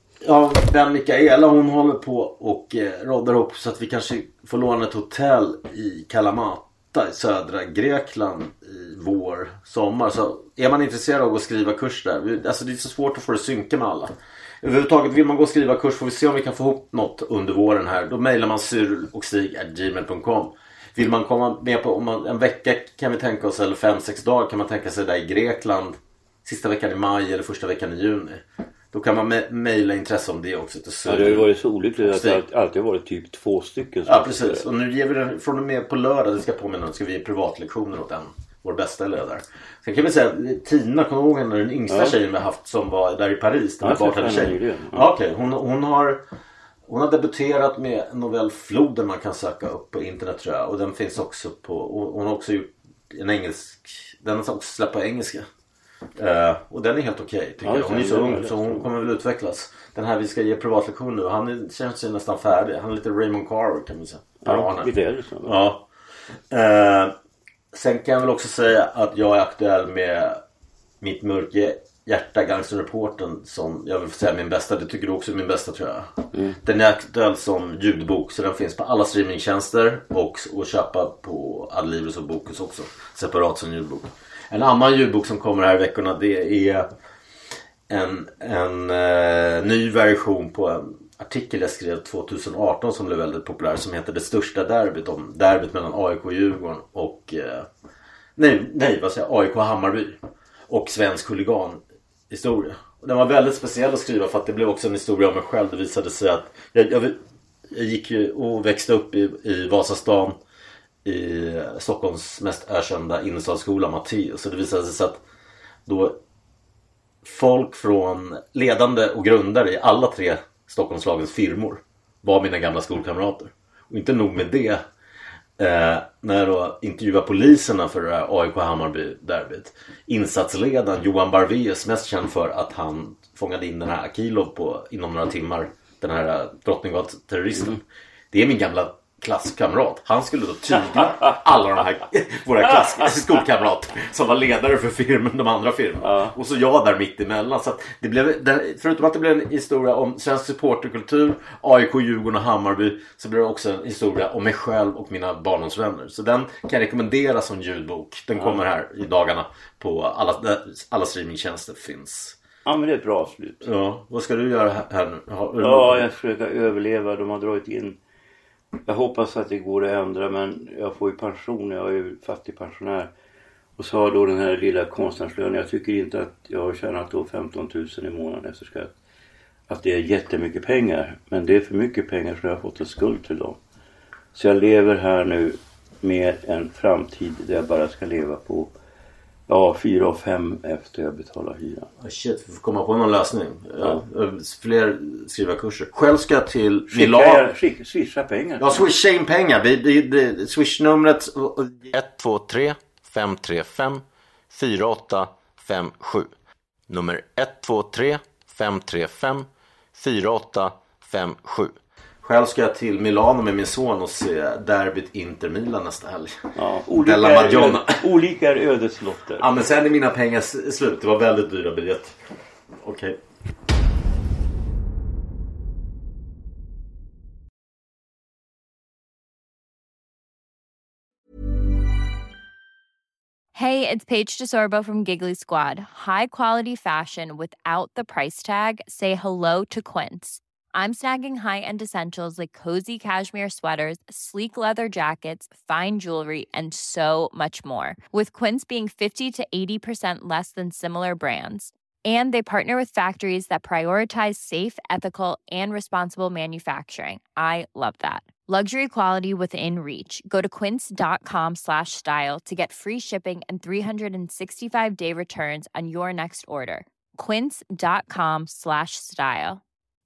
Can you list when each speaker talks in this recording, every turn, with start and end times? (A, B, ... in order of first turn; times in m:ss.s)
0:00.2-0:32.4 A
0:31.0-0:34.7 B
0:34.0-0:46.2 A
0:41.9-0:42.2 B
0:43.8-0:45.1 B
0:46.9-0:55.4 A
0:56.2-1:05.9 A
0:57.6-0:58.9 B
1:04.4-1:05.6 B
1:06.5-1:07.1 A
1:07.7-1:10.4 A
1:11.0-1:26.9 A
1:16.3-1:16.6 B
1:27.9-1:37.7 A
1:38.4-1:50.4 A
1:51.0-1:55.2 A
1:55.8-1:56.2 A
1:57.2-2:04.8 A
2:05.6-2:17.8 A
2:18.3-2:42.4 A
2:26.0-2:26.3 B
2:42.6-2:43.6 B
2:43.6-2:46.1 A
2:45.6-2:48.0 B
2:48.8-2:53.1 B
2:53.8-2:58.9 B
2:59.7-3:03.6 B
3:04.3-3:08.7 B
3:09.5-3:11.9 B
3:12.0-3:17.5 A
3:16.9-3:18.9 B
3:18.6-3:26.3 A
3:26.9-3:36.4 A
3:36.5-3:39.5 B
3:37.0-3:38.0 A
3:39.4-3:42.2 A
3:42.7-3:43.2 A
3:53.5-4:29.6 C